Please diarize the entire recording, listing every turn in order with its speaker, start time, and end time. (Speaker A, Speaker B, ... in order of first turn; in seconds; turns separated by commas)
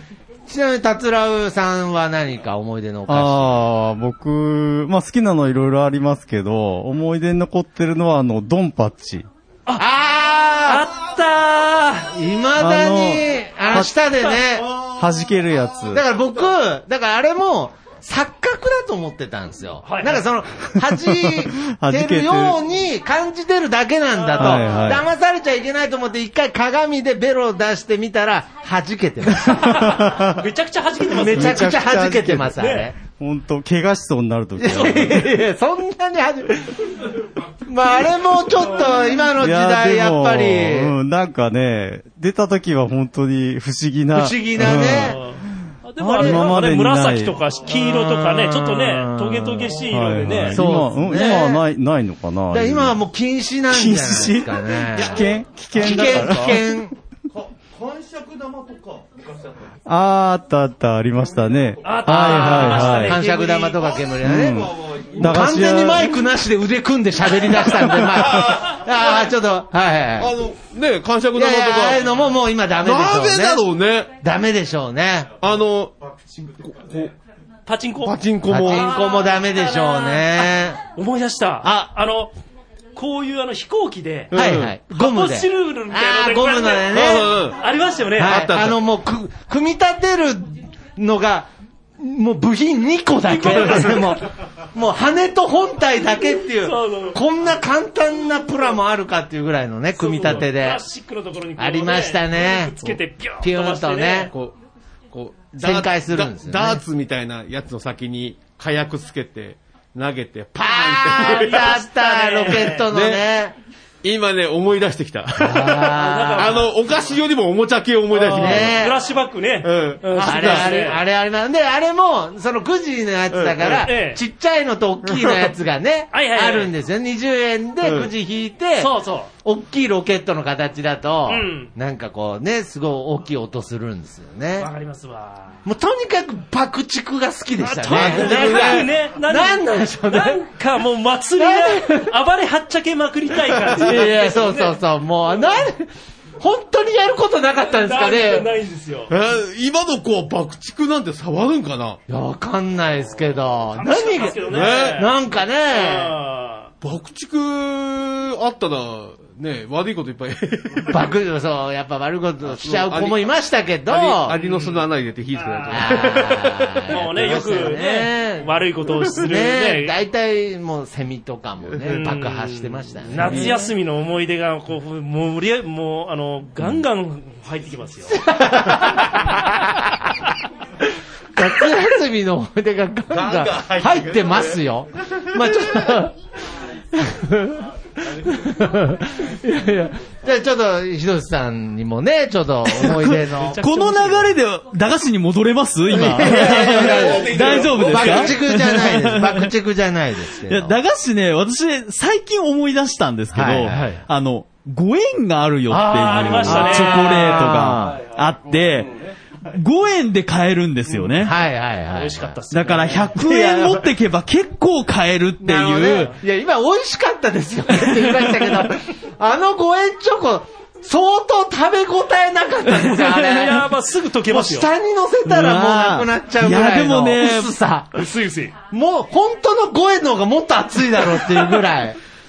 Speaker A: 0.5-3.6, Speaker B: 3.1-9.3, Speaker A: 9.8-10.9, Speaker C: 10.7-12.1, Speaker A: 12.1-14.8, Speaker B: 12.6-16.0, Speaker A: 15.9-30.0, Speaker C: 19.9-20.2, Speaker B: 20.9-22.6, Speaker C: 24.2-24.9, Speaker B: 24.4-25.1, Speaker C: 29.6-31.8, Speaker B: 29.9-30.4, Speaker A: 31.1-33.0, Speaker B: 31.2-35.3, Speaker C: 32.5-32.9, Speaker A: 34.6-37.1, Speaker A: 37.6-41.0, Speaker C: 38.6-38.9, Speaker B: 39.3-45.2, Speaker A: 44.1-45.2, Speaker C: 44.7-51.5, Speaker B: 46.0-47.4, Speaker A: 47.7-49.9, Speaker B: 49.9-53.0, Speaker A: 50.4-51.6, Speaker A: 52.5-57.0, Speaker B: 54.8-56.7, Speaker C: 55.8-56.2, Speaker D: 57.6-59.0, Speaker B: 59.9-63.2, Speaker C: 61.8-63.9, Speaker A: 62.1-70.3, Speaker B: 64.2-66.2, Speaker D: 65.0-65.3, Speaker D: 70.2-72.3, Speaker A: 71.3-73.7, Speaker D: 72.8-74.1, Speaker A: 74.2-75.4, Speaker D: 75.4-77.1, Speaker C: 77.7-82.3, Speaker D: 78.0-78.9, Speaker A: 78.5-80.8, Speaker A: 81.6-81.9, Speaker C: 83.0-84.3, Speaker D: 84.3-84.7, Speaker A: 84.3-87.3, Speaker C: 84.9-88.4, Speaker D: 86.9-87.6, Speaker A: 88.2-100.8, Speaker D: 88.2-88.8, Speaker C: 93.2-94.2, Speaker C: 96.6-97.2, Speaker C: 100.0-104.3, Speaker A: 101.6-104.3, Speaker D: 104.3-104.6, Speaker D: 105.1-111.8, Speaker A: 105.6-106.8, Speaker A: 110.6-113.6, Speaker C: 111.1-112.9, Speaker D: 112.9-113.2, Speaker D: 114.0-118.9, Speaker A: 115.4-116.7, Speaker C: 115.9-116.7, Speaker C: 118.1-121.0, Speaker A: 118.3-119.0, Speaker D: 119.6-120.8, Speaker A: 120.2-134.7, Speaker D: 123.3-123.9, Speaker C: 123.8-124.2, Speaker C: 126.1-126.7, Speaker D: 127.8-128.1, Speaker C: 128.8-129.3, Speaker C: 131.3-131.7, Speaker C: 134.6-135.6, Speaker A: 135.7-140.4, Speaker C: 137.6-144.8, Speaker D: 137.9-138.9, Speaker A: 141.4-142.1, Speaker A: 143.7-145.9, Speaker A: 146.4-148.5, Speaker C: 147.8-149.1, Speaker D: 149.1-152.0, Speaker A: 152.1-156.2, Speaker C: 153.8-155.1, Speaker D: 154.5-155.0, Speaker C: 155.7-156.7, Speaker D: 156.8-161.1, Speaker A: 160.9-164.4, Speaker D: 162.5-163.3, Speaker D: 163.9-167.3, Speaker C: 164.3-166.3, Speaker A: 165.7-173.7, Speaker C: 166.9-169.9, Speaker C: 171.9-179.4, Speaker D: 173.2-173.5, Speaker A: 178.2-180.1, Speaker A: 181.3-186.2, Speaker D: 183.2-184.0, Speaker A: 186.9-194.3, Speaker E: 193.0-199.5, Speaker A: 195.9-200.8, Speaker D: 196.2-198.4, Speaker E: 200.5-211.3, Speaker A: 203.3-204.0, Speaker C: 203.7-204.0, Speaker A: 205.7-208.1, Speaker C: 205.9-207.1, Speaker A: 211.2-212.4, Speaker C: 211.9-213.2, Speaker E: 212.5-216.1, Speaker A: 213.2-213.9, Speaker A: 215.4-223.7, Speaker C: 222.8-224.7, Speaker A: 224.2-228.1, Speaker E: 225.3-227.5, Speaker C: 228.0-228.5, Speaker A: 228.7-232.0